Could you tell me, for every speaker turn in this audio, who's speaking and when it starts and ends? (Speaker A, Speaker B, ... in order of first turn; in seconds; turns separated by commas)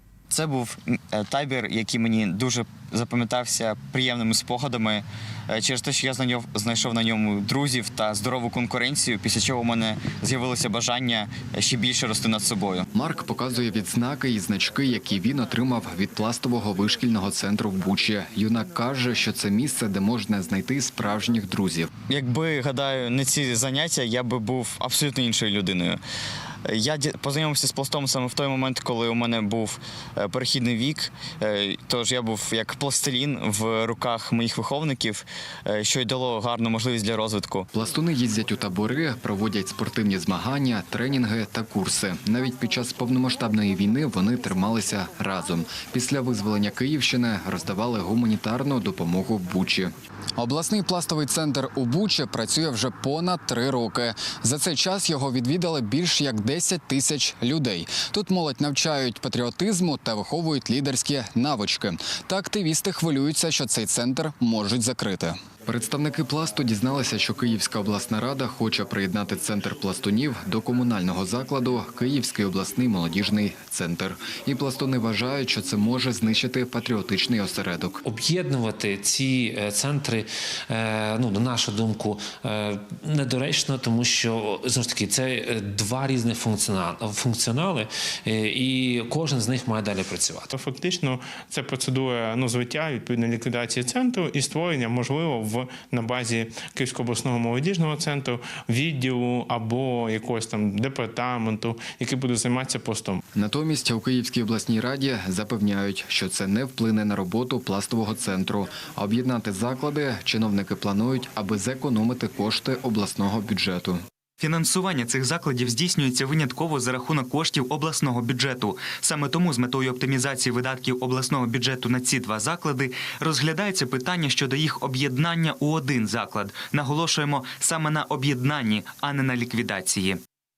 Speaker A: 0.3-12.8, Speaker B: 12.9-21.9, Speaker A: 22.1-26.0, Speaker A: 26.7-37.7, Speaker B: 37.7-78.0, Speaker C: 78.0-90.5, Speaker D: 90.5-103.2, Speaker B: 103.4-114.0, Speaker E: 114.4-130.2